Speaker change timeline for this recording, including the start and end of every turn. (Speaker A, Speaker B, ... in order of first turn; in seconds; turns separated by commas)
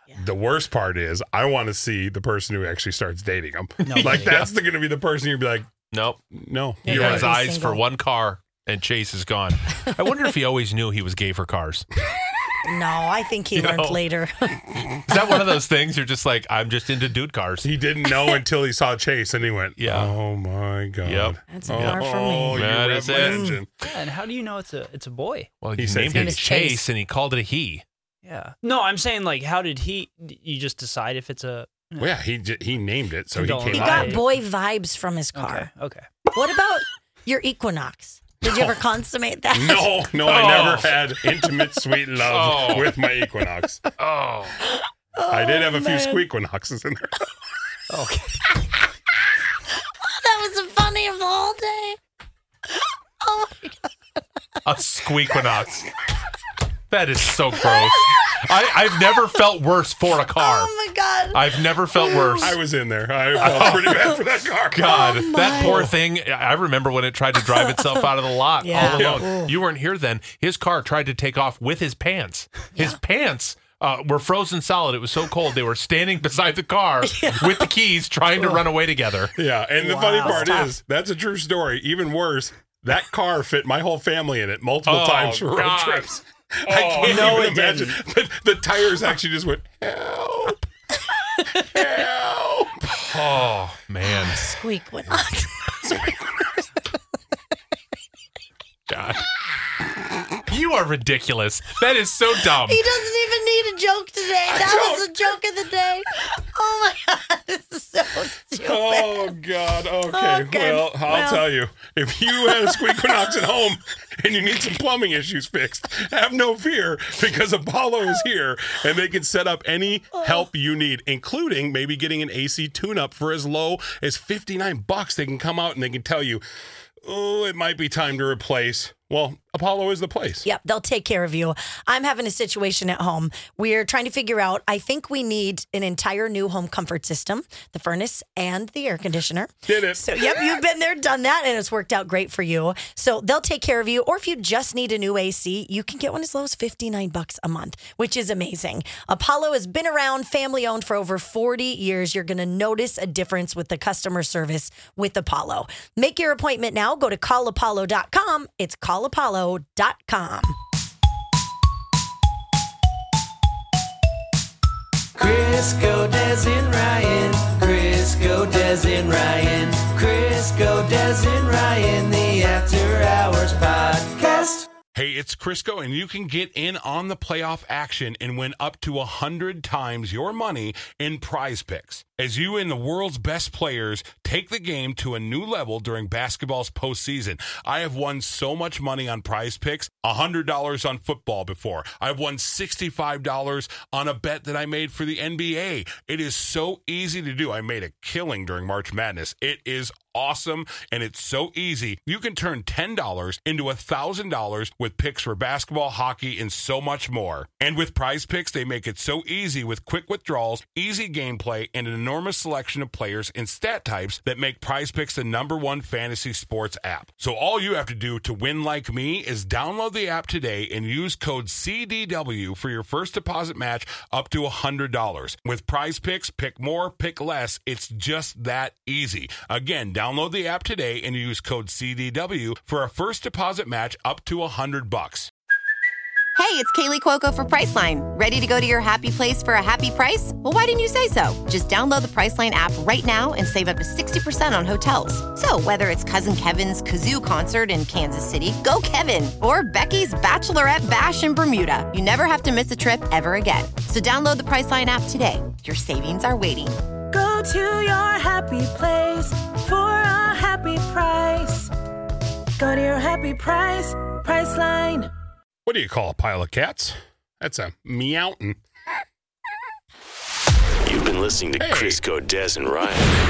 Speaker A: 0.1-5.7, Speaker B: 3.8-4.4, Speaker C: 3.9-4.5, Speaker C: 5.9-6.2, Speaker A: 6.3-7.3, Speaker D: 6.8-7.8, Speaker C: 6.8-11.9, Speaker D: 12.6-14.7, Speaker C: 13.5-14.0, Speaker C: 15.1-17.7, Speaker A: 17.6-23.9, Speaker C: 19.8-20.2, Speaker C: 21.0-23.4, Speaker D: 21.5-23.6, Speaker B: 23.8-25.5, Speaker C: 25.6-27.8, Speaker A: 25.8-26.4, Speaker D: 26.1-26.9, Speaker B: 28.2-32.2, Speaker A: 32.0-34.2, Speaker B: 33.3-34.2, Speaker D: 33.7-35.7, Speaker B: 35.3-36.1, Speaker D: 36.3-40.4, Speaker A: 39.5-43.9, Speaker C: 40.2-41.0, Speaker C: 42.2-43.0, Speaker C: 44.0-44.6, Speaker D: 44.6-46.2, Speaker A: 45.3-47.3, Speaker B: 47.9-48.4, Speaker D: 49.9-52.0, Speaker D: 52.7-53.9, Speaker C: 54.6-55.9, Speaker C: 56.9-60.7, Speaker D: 57.6-58.3, Speaker D: 60.4-62.6, Speaker C: 61.3-62.6, Speaker A: 62.4-65.9, Speaker D: 63.4-64.1, Speaker C: 63.4-63.9, Speaker C: 64.7-79.3, Speaker D: 64.8-65.9, Speaker D: 67.5-68.1, Speaker D: 68.6-69.5, Speaker A: 68.8-69.2, Speaker D: 77.0-77.7, Speaker A: 79.3-90.7, Speaker D: 79.8-80.7, Speaker C: 84.8-86.1, Speaker C: 86.7-87.5, Speaker B: 86.8-88.0, Speaker A: 91.5-93.3, Speaker C: 92.9-94.5, Speaker D: 94.0-95.8, Speaker A: 95.8-96.2, Speaker C: 98.9-99.3, Speaker C: 100.5-102.9, Speaker D: 102.7-109.3, Speaker A: 104.5-105.3, Speaker A: 108.6-126.4, Speaker D: 110.1-111.5, Speaker D: 112.4-113.2, Speaker A: 127.0-130.4, Speaker D: 130.4-160.6, Speaker A: 139.7-140.5, Speaker E: 165.2-174.6, Speaker A: 174.9-235.3, Speaker F: 236.3-256.8, Speaker G: 257.1-261.7, Speaker G: 262.6-265.1, Speaker A: 265.6-268.6, Speaker H: 270.8-273.1, Speaker A: 271.6-272.0